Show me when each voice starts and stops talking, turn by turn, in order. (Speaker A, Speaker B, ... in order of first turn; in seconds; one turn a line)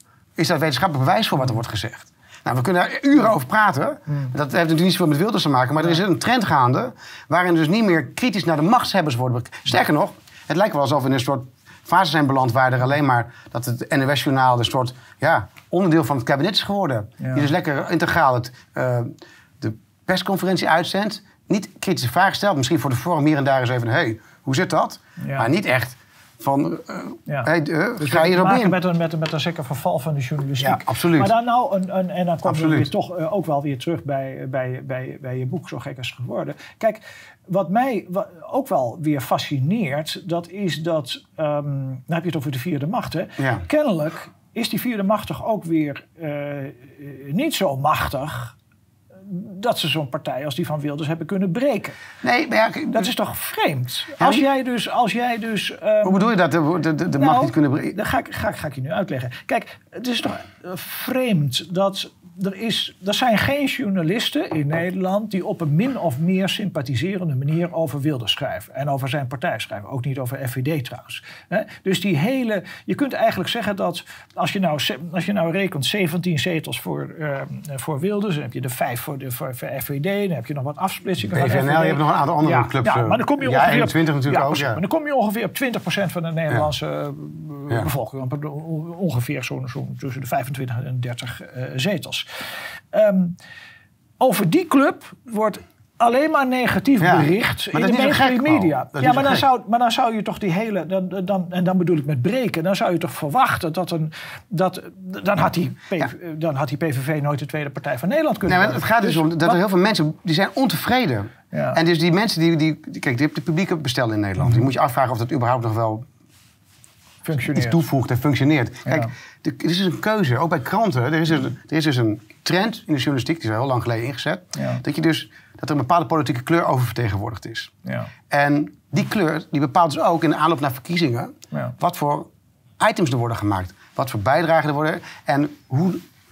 Speaker A: 0.4-28.8
Speaker B: 17.2-17.5
Speaker B: 25.2-25.5
Speaker B: 27.3-48.5
Speaker A: 30.6-31.3
Speaker A: 32.4-32.9
Speaker A: 43.4-43.6
Speaker B: 49.2-52.0
Speaker A: 52.2-53.1
Speaker B: 52.9-56.3
Speaker A: 54.2-54.5
Speaker A: 56.0-58.0
Speaker B: 57.2-93.4
Speaker A: 81.3-84.8
Speaker B: 94.2-109.6
Speaker A: 97.0-99.4
Speaker A: 108.5-116.1
Speaker B: 111.5-111.8
Speaker B: 114.4-114.7
Speaker B: 117.2-117.8
Speaker A: 117.5-127.7
Speaker B: 118.9-119.1
Speaker B: 124.6-124.8
Speaker B: 127.8-128.1
Speaker A: 128.3-132.3
Speaker A: 132.8-136.0